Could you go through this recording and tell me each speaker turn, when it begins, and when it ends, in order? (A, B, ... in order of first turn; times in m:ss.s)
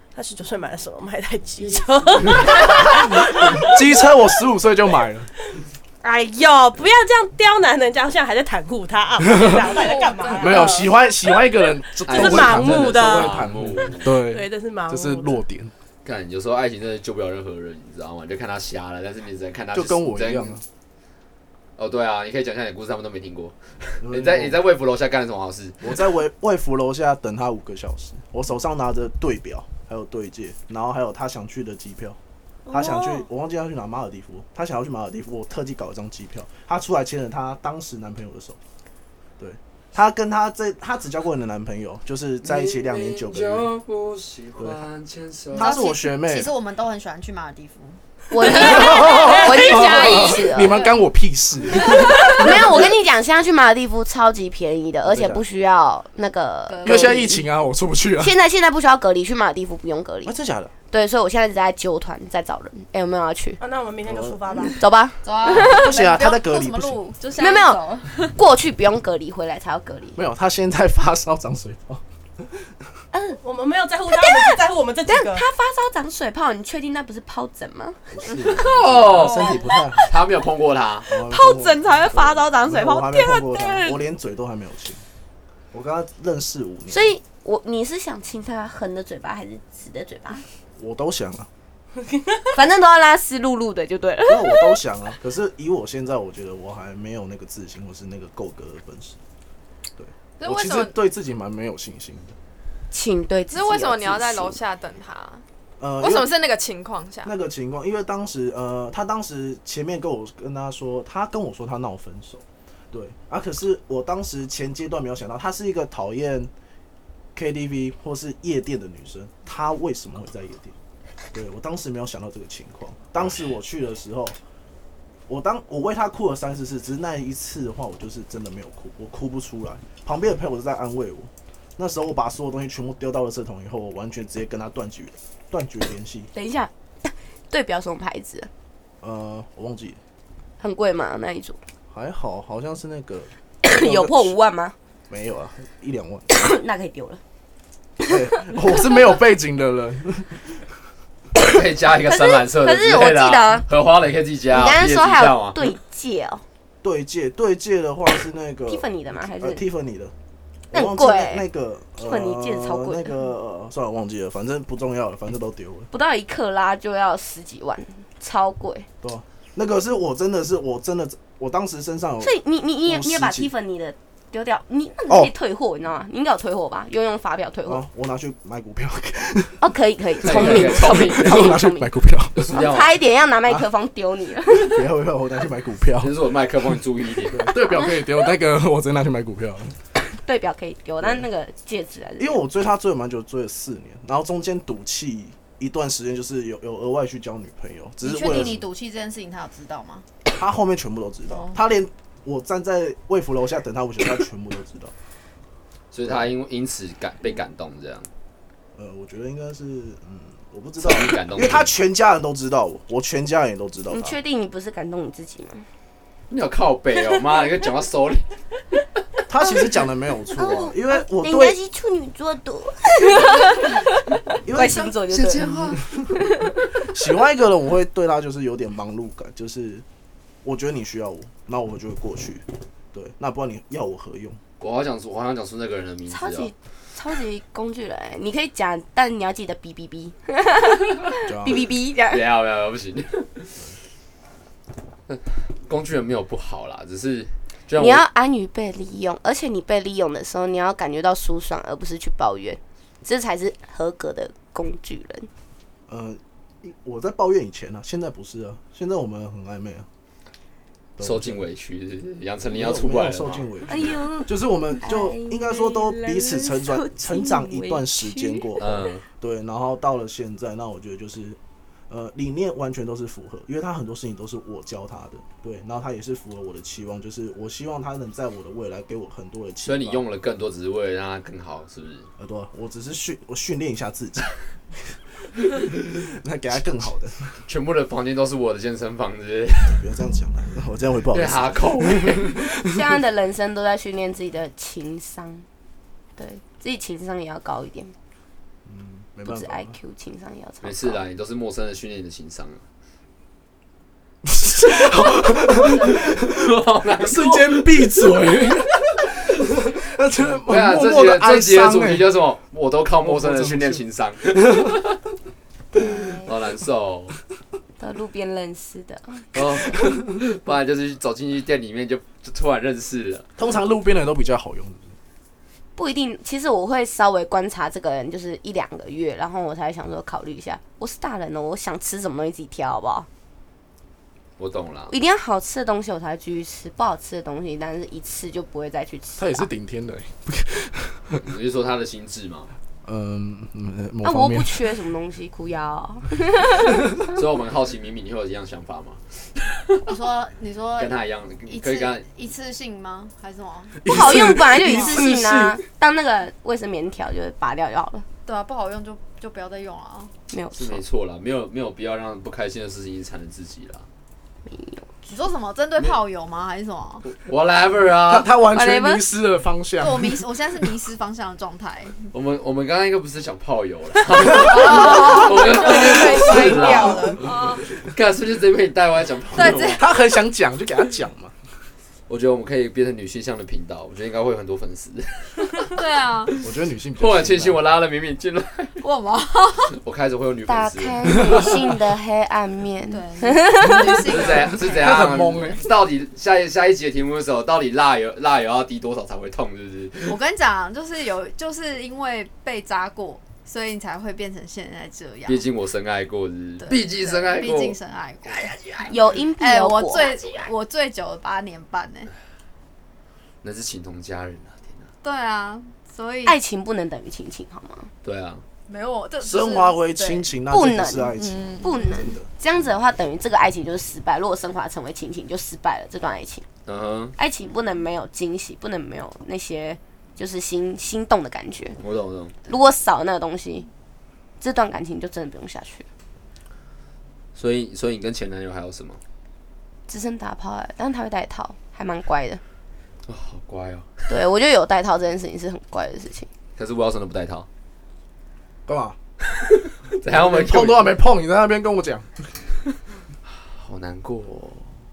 0:00.1-0:04.0 A
0:02.4-0:05.3 B
0:06.0-0:11.4 A
0:09.2-0:09.6 B
0:09.6-0:10.9 C
0:10.4-0:15.7 B
0:12.0-0:14.1 D
0:12.1-0:13.5 A
0:14.1-0:15.4 A
0:16.0-0:20.6 D
0:19.7-0:20.6 B
0:21.8-0:25.9 D
0:24.0-0:24.6 B
0:25.8-0:32.2 B
0:32.7-0:33.2 A
0:32.7-0:38.6 B
0:39.4-0:43.8 B
0:42.4-0:45.8 D
0:44.6-0:44.8 B
0:45.5-0:46.5 B
0:45.5-0:50.9 C
0:48.3-0:50.8 E
0:48.4-0:52.9 B
0:51.9-0:52.4 C
0:52.3-0:57.4 E
0:55.0-0:55.4 B
0:56.7-0:57.3 C
0:56.8-0:58.3 B
0:58.2-1:00.3 E
1:00.3-1:00.7 B
1:00.9-1:03.6 E
1:03.6-1:04.8 A
1:04.0-1:04.4 B
1:04.7-1:05.8 E
1:05.2-1:08.3 C
1:05.4-1:07.0 B
1:07.4-1:10.2 E
1:10.2-1:12.8 B
1:13.1-1:13.4 E
1:13.4-1:15.5 A
1:14.1-1:18.0 E
1:18.1-1:20.1 B
1:18.6-1:21.2 D
1:21.1-1:25.0 B
1:25.7-1:27.1 B
1:26.9-1:30.4 E
1:30.8-1:31.5 B
1:32.0-1:32.4 A
1:32.5-1:34.8 E
1:34.3-1:39.2 B
1:40.0-1:42.4 B
1:40.4-1:40.9 F
1:42.9-1:44.6 E
1:43.5-1:45.4 F
1:45.8-1:46.3 B
1:46.0-1:47.3 F
1:47.2-1:56.5 B
1:57.4-2:00.8 B
2:01.3-2:04.4 B
2:05.3-2:16.3 B
2:16.3-2:18.5 E
2:19.0-2:20.0 B
2:20.6-2:21.6 E
2:21.9-2:24.4 B
2:23.6-2:24.7 E
2:25.1-2:26.3 B
2:26.3-2:27.2 E
2:28.1-2:30.6 B
2:31.4-2:35.6 D
2:32.2-2:33.7 E
2:34.5-2:36.4 E
2:36.8-2:40.1 B
2:38.7-2:39.6 E
2:40.7-2:45.9 B
2:40.7-2:41.5 E
2:42.0-2:43.2 E
2:45.9-2:48.9 E
2:49.0-2:53.5 B
2:52.2-2:57.8 E
2:57.7-2:59.6 B
2:59.6-3:01.9 E
3:00.2-3:02.6 B
3:00.2-3:01.6 D
3:02.4-3:02.9 D
3:02.5-3:04.8 E
3:04.5-3:06.1 B
3:06.0-3:07.6 D
3:07.3-3:09.8 B
3:10.2-3:12.4 E
3:11.0-3:11.3 B
3:12.2-3:18.6 B
3:18.0-3:20.0 C
3:20.3-3:24.9 B
3:21.3-3:21.6 C
3:25.9-3:28.1 D
3:28.8-3:34.2 B
3:30.8-3:31.8 D
3:33.9-3:35.7 E
3:36.3-3:38.3 D
3:39.3-3:41.6 B
3:40.3-3:43.9 E
3:44.4-3:46.2 B
3:44.5-3:45.6 E
3:45.1-3:45.8 D
3:46.8-3:49.8 B
3:50.4-3:54.4 B
3:54.6-3:56.5 D
3:56.1-4:02.2 E
4:01.2-4:01.6 B
4:02.1-4:03.6 D
4:05.1-4:08.0 D
4:07.8-4:15.3 E
4:15.9-4:19.9 B
4:21.0-4:21.5 B
4:21.0-4:23.9 D
4:22.5-4:40.0 B
4:23.7-4:28.8 E
4:28.6-4:29.0 D
4:39.7-4:42.1 D
4:42.2-4:44.9 B
4:46.0-4:47.4 B
4:47.5-4:49.9 D
4:49.7-4:52.7 B
4:51.1-4:52.4 D
4:52.7-4:55.5 E
4:56.2-4:58.0 E
4:58.7-4:59.8 B
4:59.2-5:01.0 E
5:00.6-5:02.6 D
5:04.2-5:06.4 B
5:05.7-5:08.4 D
5:07.0-5:12.1 B
5:10.5-5:15.0 D
5:13.0-5:14.7 B
5:15.8-5:16.3 E
5:16.2-5:17.2 D
5:17.8-5:19.3 E
5:19.3-5:23.3 D
5:23.4-5:25.0 B
5:25.8-5:33.1 E
5:34.4-5:34.9 D
5:34.9-5:39.5 E
5:39.2-5:41.3 B
5:41.2-5:42.5 D
5:42.8-5:44.6 B
5:44.0-5:46.8 E
5:47.1-5:49.8 D
5:49.9-5:55.1 C
5:50.8-5:52.1 D
5:53.8-5:55.6 B
5:53.8-5:58.0 E
5:58.2-6:00.1 C
6:00.3-6:00.8 E
6:00.6-6:03.9 D
6:04.5-6:04.9 E
6:05.1-6:07.1 C
6:07.0-6:08.3 D
6:08.0-6:10.2 B
6:08.5-6:09.1 E
6:09.8-6:12.0 C
6:12.1-6:19.8 D
6:14.2-6:17.6 C
6:14.6-6:17.2 A
6:19.4-6:19.8 C
6:19.7-6:21.4 B
6:22.1-6:26.3 D
6:25.7-6:26.4 C
6:26.4-6:27.6 B
6:27.0-6:28.8 D
6:28.8-6:29.8 C
6:29.8-6:31.5 D
6:30.5-6:34.0 E
6:32.9-6:35.0 C
6:34.1-6:40.2 D
6:34.7-6:35.6 B
6:40.0-6:45.5 C
6:45.3-6:48.9 D
6:46.6-6:52.1 C
6:48.9-6:50.5 E
6:53.4-6:54.9 D
6:55.0-6:56.4 C
6:56.2-6:57.9 E
6:58.0-6:58.4 D
6:58.7-7:00.3 C
6:59.2-7:02.3 B
7:00.5-7:06.5 E
7:01.2-7:02.0 C
7:06.7-7:07.2 D
7:07.2-7:11.8 E
7:11.8-7:12.4 D
7:12.5-7:13.7 E
7:14.4-7:15.9 E
7:17.4-7:19.0 D
7:19.9-7:22.4 E
7:23.1-7:24.1 D
7:24.1-7:26.3 E
7:26.6-7:27.5 D
7:28.7-7:29.0 B
7:29.5-7:31.0 D
7:30.0-7:32.3 B
7:33.4-7:34.7 D